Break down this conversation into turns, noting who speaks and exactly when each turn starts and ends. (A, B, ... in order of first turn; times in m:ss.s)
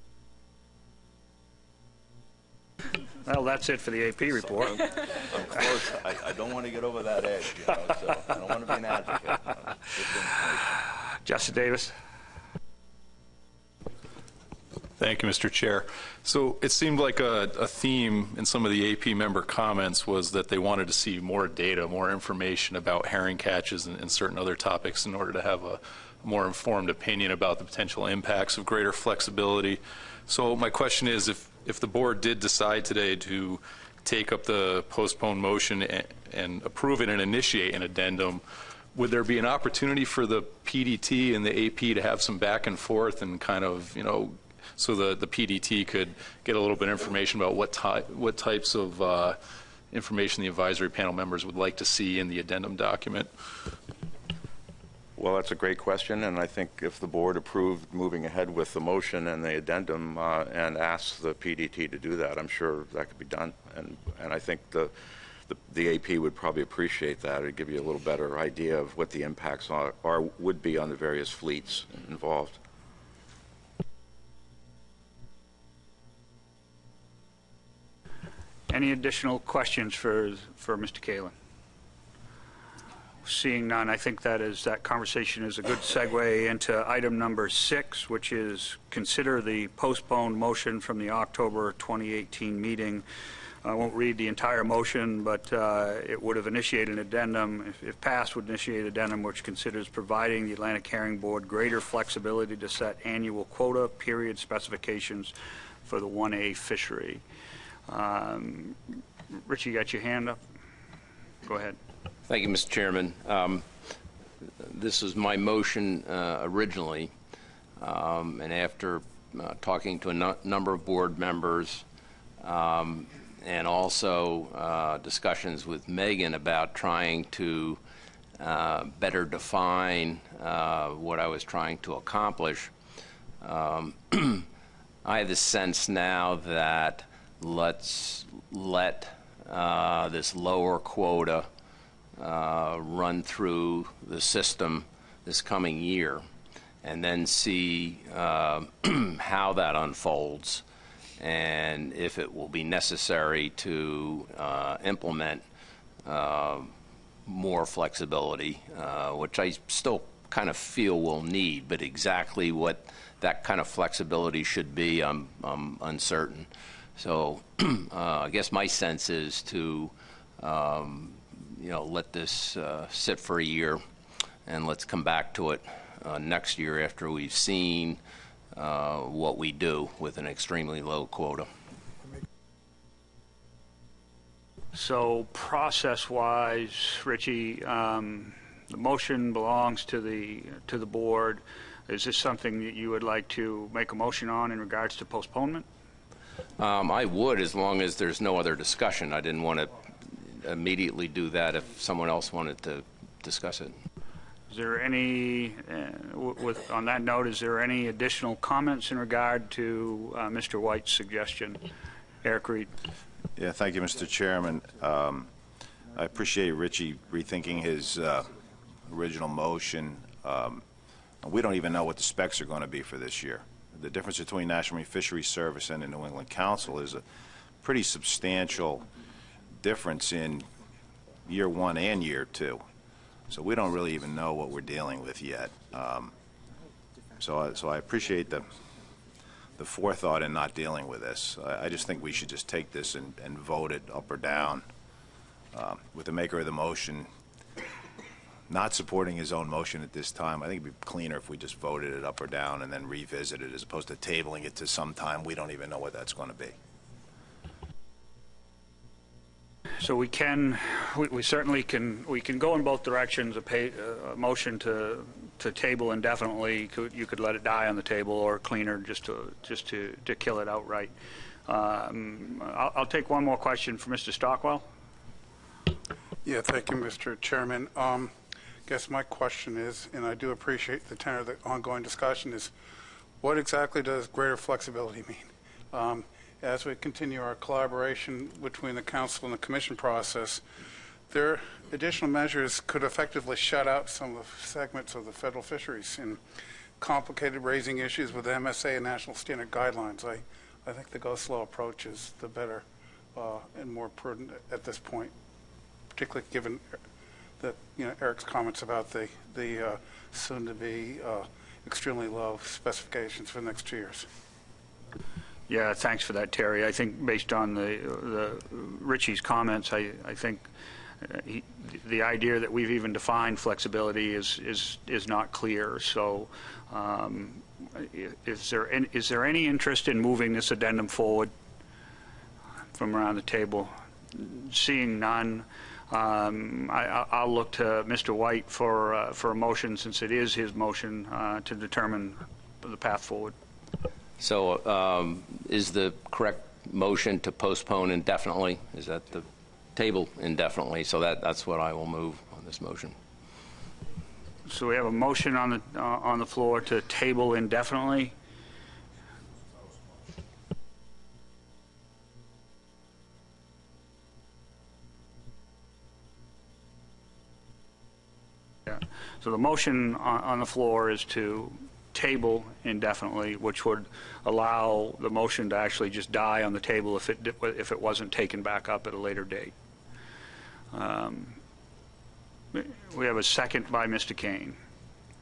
0:03.2-0:04.9 A
0:05.2-0:10.6 B
0:11.2-0:11.9 A
0:15.0-0:38.4 C
0:38.9-0:49.4 C
0:49.9-0:53.3 C
0:55.2-1:04.9 D
1:05.5-1:12.6 D
1:18.7-1:21.3 A
1:23.2-1:33.0 A
1:33.6-1:45.3 A
1:45.8-1:47.2 A
1:47.9-1:50.4 A
1:51.4-1:51.8 A
1:52.3-1:53.7 E
1:54.6-1:57.1 E
1:57.8-2:01.8 E
2:02.4-2:07.8 E
2:08.4-2:12.7 E
2:13.4-2:14.5 E
2:15.0-2:21.5 E
2:22.2-2:26.2 E
2:26.8-2:30.6 E
2:31.2-2:35.4 E
2:36.0-2:36.7 E
2:37.2-2:53.8 E
2:54.4-2:58.0 E
2:58.5-3:01.5 E
3:04.7-3:15.6 A
3:16.6-3:23.8 E
3:24.5-3:31.6 A
3:32.2-3:32.7 A
3:33.3-3:35.3 F
3:35.9-3:40.6 F
3:41.2-3:47.0 F
3:47.6-3:48.8 F
3:49.6-3:50.5 F
3:51.2-3:52.6 F
3:53.3-3:56.1 F
3:57.2-3:58.5 F
3:59.6-4:04.6 F
4:05.5-4:07.1 F
4:08.5-4:16.6 F
4:19.8-4:30.9 A
4:31.5-4:34.6 A
4:36.2-4:38.1 G
4:38.7-4:42.5 G
4:43.2-4:50.4 G
4:51.1-4:56.2 G
4:56.8-5:02.6 G
5:03.1-5:05.1 G
5:05.9-5:06.6 G
5:07.4-5:14.0 G
5:15.5-5:20.5 A
5:21.0-5:31.3 A
5:32.7-5:43.3 A
5:44.2-5:53.0 E
5:54.5-5:58.1 A
6:08.7-6:19.5 A
6:20.7-6:21.4 A
6:22.5-6:24.6 A